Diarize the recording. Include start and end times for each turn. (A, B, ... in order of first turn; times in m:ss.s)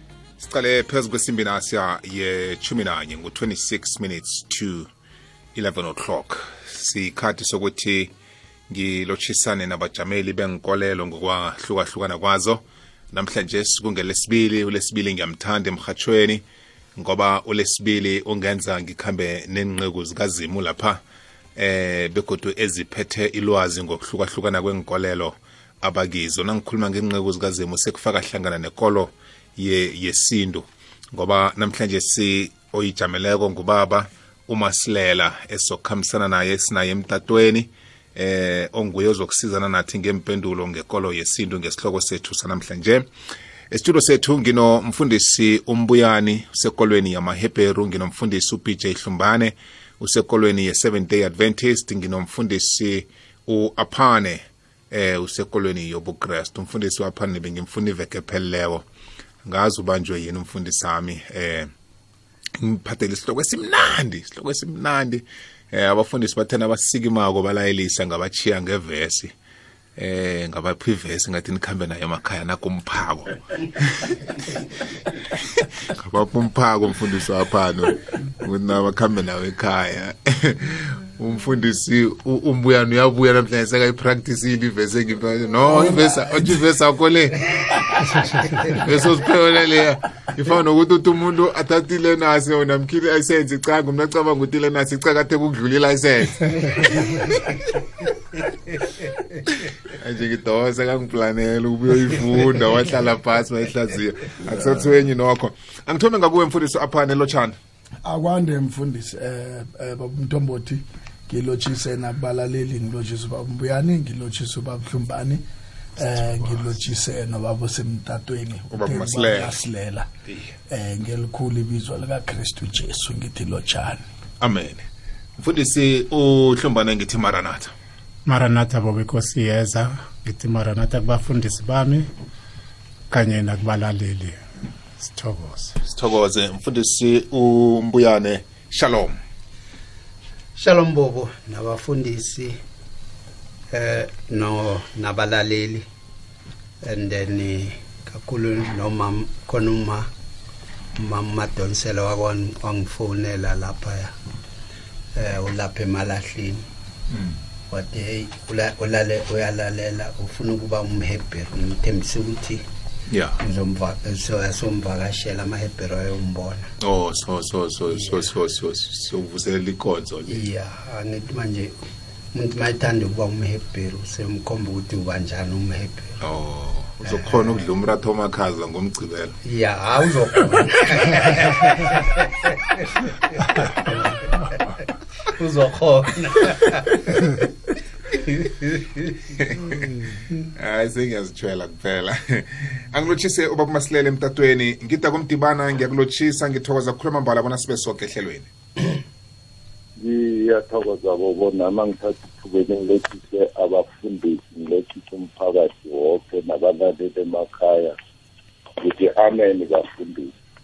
0:00.4-0:04.9 A
0:05.6-0:08.1 A
0:08.7-0:16.4 A
0:17.0-0:21.0 A
0:21.6-0:43.1 A
0:43.7-0:58.8 A
0:59.4-1:01.7 A
1:02.6-1:09.3 A
1:10.0-1:37.8 A
1:28.2-1:28.7 B
1:39.9-1:47.6 A
1:48.0-1:55.4 C
1:56.0-2:00.1 C
1:58.7-1:59.6 A
2:00.7-2:04.0 C
2:04.4-2:04.8 A
2:05.4-2:07.7 A
2:08.3-2:12.1 B
2:13.1-2:14.4 B
2:15.0-2:15.8 B
2:15.9-2:19.2 A
2:20.6-2:22.6 D
2:23.7-2:25.9 D
2:26.8-2:30.1 D
2:31.0-2:34.1 D
2:35.2-2:36.6 D
2:37.7-2:42.6 D
2:43.1-2:43.4 A
2:43.4-2:46.7 D
2:46.8-2:50.4 A
2:47.9-2:48.2 D
2:50.3-2:51.8 D
2:52.3-2:56.2 D
2:56.2-2:59.4 A
2:59.4-3:07.4 D
3:08.1-3:09.2 D
3:09.4-3:09.9 A
3:10.6-3:18.5 A
3:20.0-3:28.0 E
3:28.8-3:30.3 E